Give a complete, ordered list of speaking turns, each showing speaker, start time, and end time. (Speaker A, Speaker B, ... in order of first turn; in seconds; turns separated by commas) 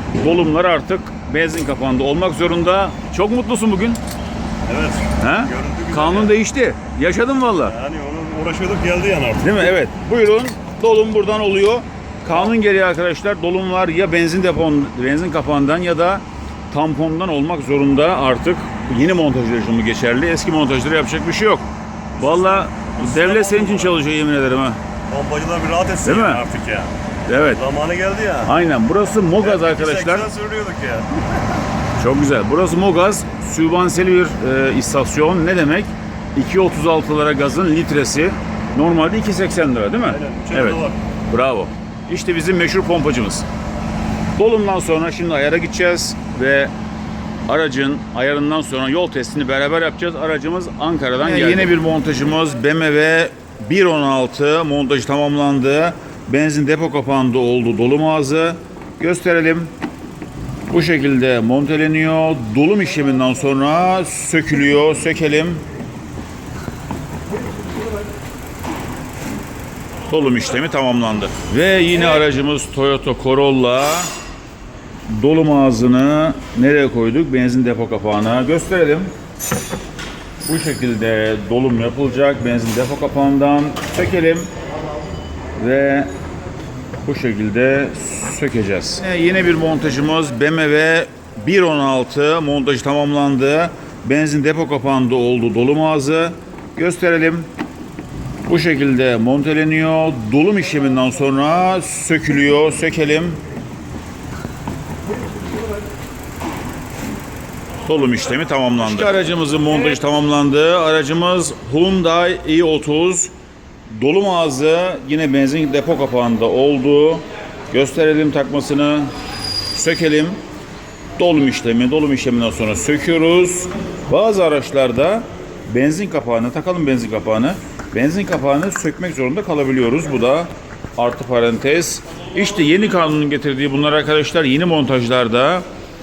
Speaker A: 0.2-4.0, Speaker B: 4.7-6.3, Speaker A: 5.2-7.8, Speaker B: 7.6-9.7, Speaker A: 9.4-21.6, Speaker B: 22.2-24.0, Speaker A: 22.2-24.8, Speaker B: 25.1-26.9, Speaker A: 26.0-26.4, Speaker A: 27.3-27.6, Speaker B: 27.4-28.5, Speaker A: 28.4-30.3, Speaker B: 29.4-31.1, Speaker A: 32.0-43.5, Speaker B: 40.1-41.0, Speaker A: 44.4-46.7, Speaker A: 47.5-59.7, Speaker A: 60.7-65.6, Speaker A: 70.1-74.1, Speaker A: 75.1-79.1, Speaker A: 80.5-84.5, Speaker A: 85.6-86.1, Speaker A: 87.0-97.5, Speaker A: 98.5-103.4, Speaker A: 107.9-113.3, Speaker A: 113.9-119.1, Speaker A: 119.8-120.4, Speaker A: 121.2-135.7